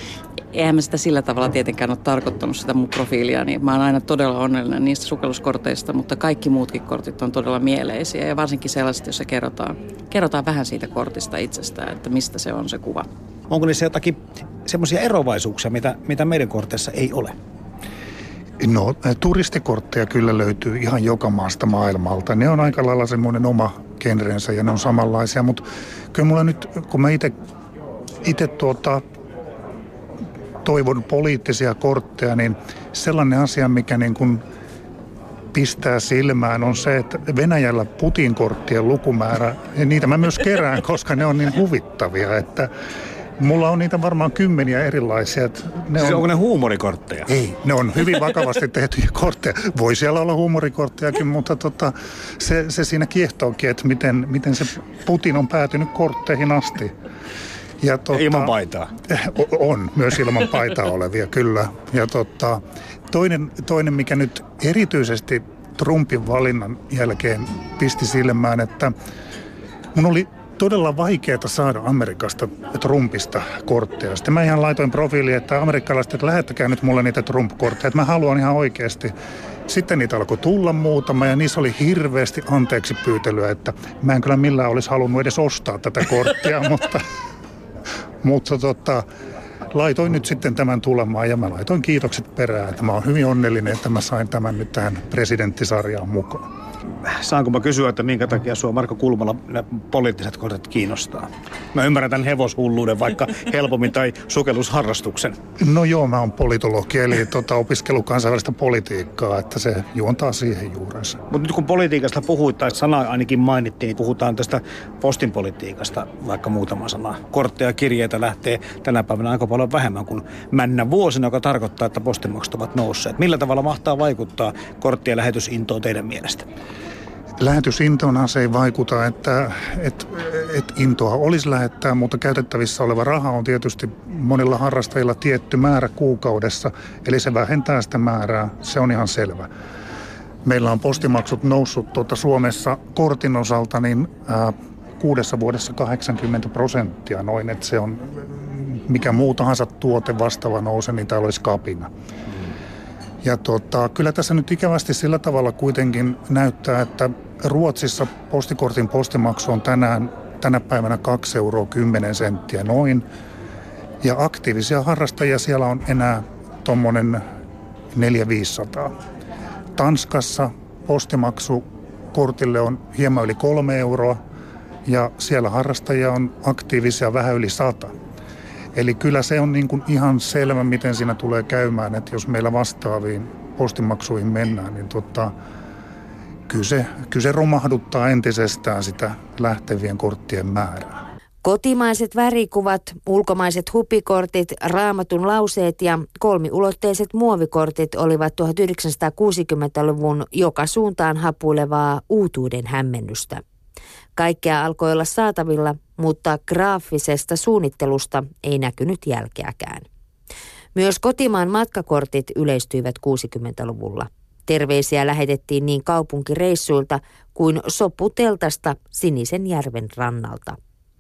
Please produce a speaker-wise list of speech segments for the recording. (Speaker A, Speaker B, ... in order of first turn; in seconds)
Speaker A: 0.5-13.1
Speaker B: 13.5-17.4, 46.0-47.4, 58.1-58.9, 97.0-105.4, 111.3-126.5
Speaker C: 18.6-27.3, 28.2-29.0, 30.6-34.4, 35.5-42.7, 43.4-46.3, 47.3-56.9, 57.8-58.5, 59.1-69.0, 70.0-79.1, 79.7-87.1, 88.2-89.1, 89.7-96.5, 105.6-111.2, 127.4-139.5, 140.4-151.9, 153.2-163.0, 164.0-167.2, 167.9-168.9, 169.8-174.2, 174.9-177.9, 178.8-185.3, 186.5-191.0
Speaker D: 191.4-203.4, 204.2-209.8, 210.8-220.6